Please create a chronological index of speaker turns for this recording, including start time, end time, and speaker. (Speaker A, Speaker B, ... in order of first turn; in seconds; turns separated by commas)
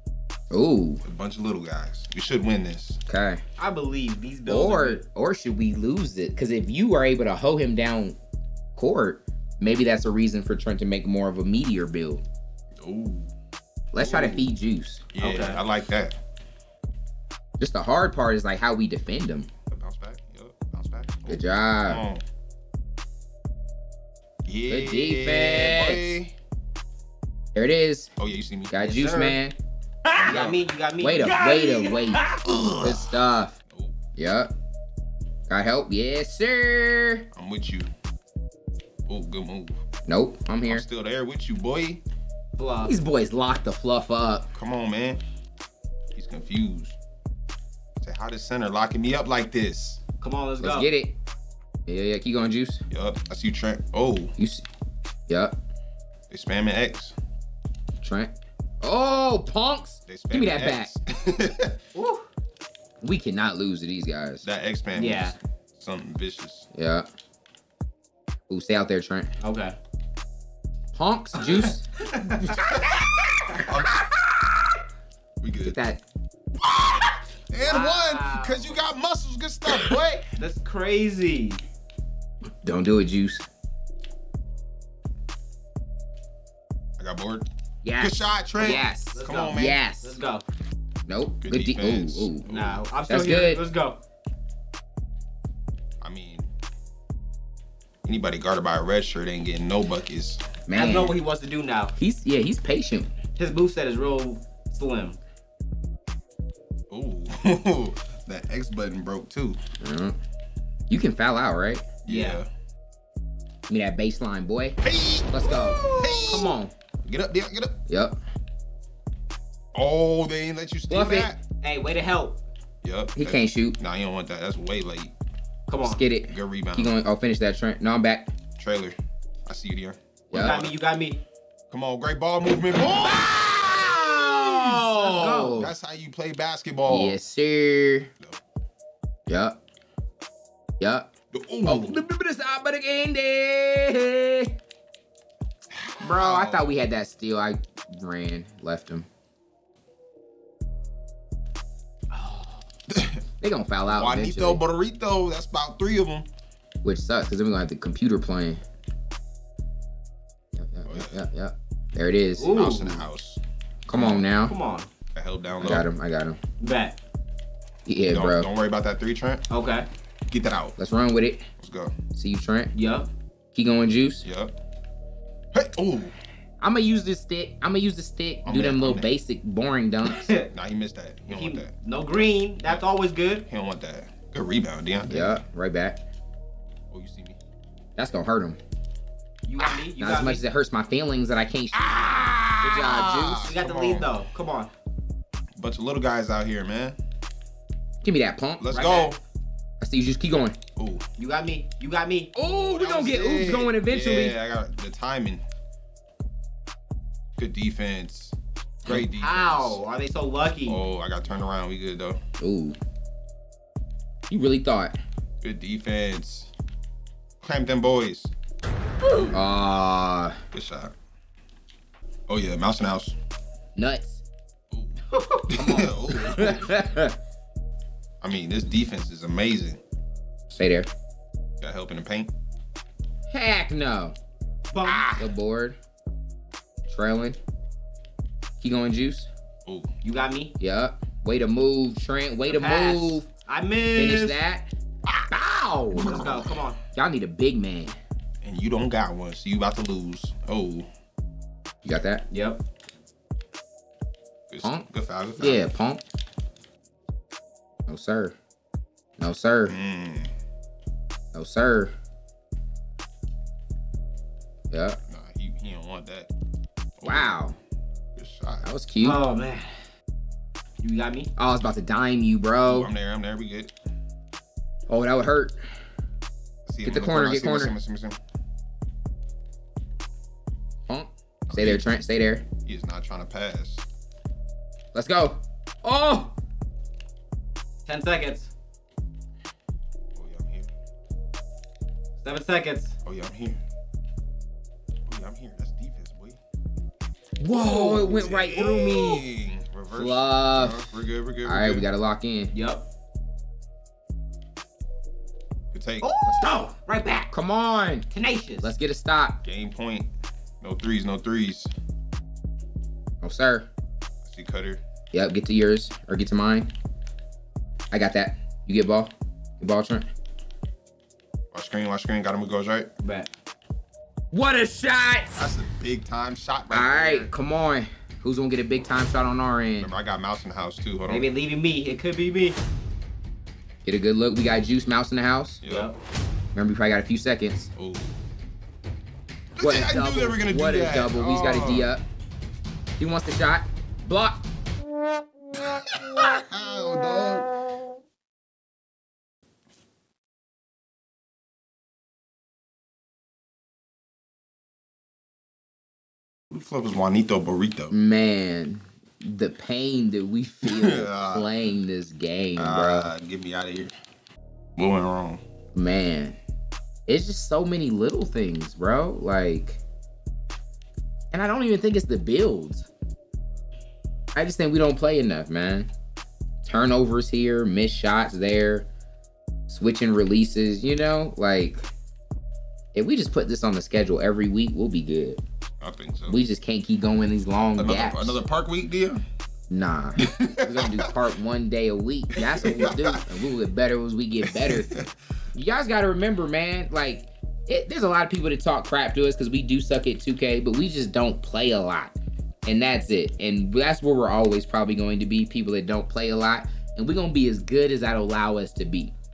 Speaker A: 0.5-1.0, Speaker B: 1.0-3.0, Speaker A: 3.1-3.4, Speaker C: 3.6-5.0, Speaker A: 4.5-8.2, Speaker A: 8.8-12.2, Speaker B: 12.8-13.3, Speaker A: 13.9-15.0, Speaker B: 14.0-14.5, Speaker B: 15.1-16.2, Speaker C: 15.2-15.6, Speaker A: 17.6-19.5, Speaker B: 19.7-22.2, Speaker A: 21.3-22.0, Speaker B: 24.4-26.3, Speaker A: 24.7-26.1, Speaker A: 27.5-28.1, Speaker B: 28.2-28.8, Speaker A: 28.7-29.6, Speaker C: 28.8-29.4, Speaker B: 30.1-30.7, Speaker C: 30.2-31.6, Speaker A: 31.0-33.6, Speaker B: 31.4-33.2, Speaker B: 33.7-34.0, Speaker A: 34.2-34.5, Speaker A: 35.5-37.3, Speaker B: 37.3-37.9, Speaker B: 39.1-39.8, Speaker A: 40.1-40.9, Speaker B: 40.7-42.0, Speaker C: 42.6-43.0, Speaker A: 42.8-44.5, Speaker B: 44.5-45.2, Speaker B: 46.1-47.0, Speaker B: 48.0-50.0, Speaker C: 50.2-50.9, Speaker A: 50.6-51.1, Speaker A: 51.9-52.8, Speaker B: 52.9-54.4, Speaker A: 54.4-54.6, Speaker A: 55.3-55.5, Speaker B: 56.3-57.1, Speaker A: 58.0-60.9, Speaker B: 60.1-61.8, Speaker C: 62.0-62.3, Speaker A: 63.0-64.5, Speaker B: 64.4-66.7, Speaker C: 65.0-65.4, Speaker A: 66.7-67.1, Speaker A: 68.5-69.3, Speaker C: 69.4-69.8, Speaker A: 71.0-71.8, Speaker C: 72.2-72.6, Speaker B: 72.6-73.0, Speaker B: 73.6-74.0, Speaker B: 75.4-75.9, Speaker A: 75.6-76.0, Speaker B: 76.6-80.3, Speaker C: 77.6-78.8, Speaker C: 80.4-81.6, Speaker A: 82.6-83.4, Speaker B: 87.0-87.5, Speaker A: 87.8-90.2, Speaker B: 88.0-89.8, Speaker C: 88.6-90.5, Speaker A: 91.1-92.5, Speaker B: 91.4-92.8, Speaker C: 92.5-94.0, Speaker A: 93.1-93.6, Speaker B: 96.0-96.5, Speaker B: 98.0-100.4, Speaker A: 100.7-101.2, Speaker C: 100.7-102.0, Speaker A: 102.0-103.1, Speaker C: 103.4-105.2, Speaker B: 106.9-109.6, Speaker A: 109.8-110.2, Speaker A: 110.9-111.8, Speaker B: 112.0-112.5, Speaker C: 112.1-112.4, Speaker A: 113.7-116.7, Speaker B: 114.8-117.8, Speaker A: 117.9-118.2, Speaker B: 119.7-121.4, Speaker A: 120.9-121.3, Speaker C: 121.6-122.4, Speaker B: 122.8-125.1, Speaker A: 123.2-123.8, Speaker C: 125.7-126.0, Speaker A: 125.8-128.3, Speaker B: 126.3-126.9, Speaker B: 128.6-129.0, Speaker B: 129.5-130.8, Speaker A: 130.3-130.6, Speaker C: 130.3-131.2, Speaker B: 131.7-134.9, Speaker A: 133.0-135.7, Speaker C: 134.9-135.6, Speaker B: 135.5-137.2, Speaker A: 136.9-138.1, Speaker A: 139.3-139.6, Speaker A: 140.8-141.1, Speaker B: 141.3-142.0, Speaker A: 141.6-144.5, Speaker B: 145.7-146.8, Speaker A: 146.0-149.1, Speaker C: 152.1-152.6, Speaker B: 152.9-153.2, Speaker A: 153.4-154.6, Speaker B: 153.9-156.3, Speaker A: 156.8-158.6, Speaker A: 160.6-162.5, Speaker B: 160.9-161.3, Speaker C: 162.4-163.1, Speaker B: 162.4-164.2, Speaker A: 163.9-164.6, Speaker C: 164.4-164.9, Speaker B: 165.1-165.9, Speaker A: 165.6-166.4, Speaker C: 166.6-167.0, Speaker A: 167.9-168.5, Speaker B: 168.1-169.4, Speaker C: 169.5-169.9, Speaker B: 170.3-170.8, Speaker A: 170.8-171.5, Speaker B: 171.6-171.9, Speaker A: 172.1-172.7, Speaker C: 172.8-173.1, Speaker A: 173.5-174.2, Speaker B: 174.2-174.5, Speaker B: 175.5-176.2, Speaker A: 176.6-180.3, Speaker B: 178.4-179.1, Speaker C: 180.1-180.5, Speaker B: 180.5-181.7, Speaker C: 181.3-183.5, Speaker B: 183.5-185.4, Speaker A: 185.1-186.0, Speaker B: 186.9-187.4, Speaker A: 188.0-188.6, Speaker C: 189.5-190.4, Speaker A: 190.0-193.5, Speaker B: 191.7-194.1, Speaker C: 193.4-194.7, Speaker B: 195.6-197.0, Speaker A: 198.0-198.7, Speaker B: 198.6-199.2, Speaker C: 198.7-199.2, Speaker A: 199.8-200.6, Speaker B: 200.8-201.0, Speaker C: 201.2-202.3, Speaker A: 202.3-204.3, Speaker B: 202.7-205.4, Speaker B: 207.4-209.8, Speaker C: 208.9-210.8, Speaker B: 210.7-212.2, Speaker A: 212.4-212.8, Speaker A: 214.3-215.0, Speaker B: 215.4-216.5, Speaker B: 217.4-218.3, Speaker B: 219.1-219.4, Speaker A: 219.3-220.4, Speaker B: 220.5-220.9, Speaker B: 222.3-223.2, Speaker A: 223.8-224.2, Speaker B: 224.7-226.8, Speaker C: 225.1-225.5, Speaker A: 225.6-227.2, Speaker B: 228.2-229.8, Speaker A: 230.5-230.9, Speaker B: 231.6-232.3, Speaker A: 233.3-234.2, Speaker C: 234.7-235.2, Speaker B: 234.9-235.2, Speaker A: 235.2-235.8, Speaker A: 236.9-237.4, Speaker A: 238.6-239.3, Speaker B: 239.7-239.9, Speaker C: 240.0-240.6, Speaker A: 240.6-243.3, Speaker C: 242.5-244.4, Speaker A: 244.0-244.7, Speaker A: 245.3-246.3, Speaker B: 245.9-246.6, Speaker C: 246.0-246.8, Speaker A: 246.9-248.0, Speaker B: 248.4-250.9, Speaker A: 251.8-252.2, Speaker C: 252.3-252.6, Speaker B: 254.5-255.7, Speaker A: 255.4-256.0, Speaker A: 257.9-258.4, Speaker A: 259.2-259.8, Speaker B: 259.7-260.3, Speaker A: 261.3-261.9, Speaker A: 264.7-265.0, Speaker B: 265.1-266.3, Speaker B: 267.0-267.4, Speaker A: 267.0-267.6, Speaker B: 268.2-268.7, Speaker A: 268.6-269.2, Speaker C: 269.0-269.8, Speaker C: 270.8-271.3, Speaker A: 271.4-272.9, Speaker B: 272.7-273.7, Speaker A: 274.9-275.6, Speaker B: 276.7-278.2, Speaker A: 276.9-277.7, Speaker A: 280.9-282.4, Speaker B: 281.5-281.9, Speaker B: 282.6-283.8, Speaker A: 284.9-286.3, Speaker C: 287.9-288.5, Speaker B: 290.1-290.7, Speaker C: 292.2-293.0, Speaker B: 293.0-293.6, Speaker B: 295.1-296.4, Speaker A: 297.4-299.2, Speaker B: 297.6-301.9, Speaker A: 299.9-300.9, Speaker A: 301.4-302.5, Speaker C: 302.5-302.9, Speaker B: 305.7-306.1, Speaker C: 306.0-307.3, Speaker A: 306.2-306.7, Speaker A: 307.3-308.1, Speaker C: 308.1-308.7, Speaker A: 308.6-309.4, Speaker B: 309.4-310.1, Speaker B: 310.6-311.7, Speaker A: 313.2-313.7, Speaker B: 314.2-314.8, Speaker A: 315.1-316.7, Speaker A: 317.9-320.1, Speaker B: 321.5-322.9, Speaker C: 323.0-323.3, Speaker A: 324.3-325.5, Speaker B: 325.4-327.3, Speaker A: 326.7-329.9, Speaker B: 329.8-331.3, Speaker C: 331.1-332.6, Speaker A: 333.9-335.6, Speaker B: 335.6-335.9, Speaker C: 335.7-335.9, Speaker A: 336.6-337.7, Speaker B: 337.8-338.1, Speaker B: 339.6-341.9, Speaker A: 339.6-342.0, Speaker A: 343.0-344.4, Speaker B: 345.5-347.5, Speaker B: 356.5-357.9, Speaker A: 357.9-363.1, Speaker B: 360.6-361.5, Speaker B: 362.6-363.9, Speaker B: 364.8-365.4, Speaker A: 365.7-366.4, Speaker A: 367.1-369.8, Speaker A: 371.3-372.9, Speaker A: 374.4-375.9, Speaker A: 376.6-378.9, Speaker A: 379.7-381.8, Speaker A: 382.9-385.4, Speaker B: 385.8-386.4, Speaker A: 386.3-388.4, Speaker B: 387.8-389.2, Speaker A: 389.7-394.9, Speaker B: 390.2-391.2, Speaker B: 392.3-393.3, Speaker B: 394.5-395.1, Speaker A: 395.5-402.1, Speaker A: 402.7-409.1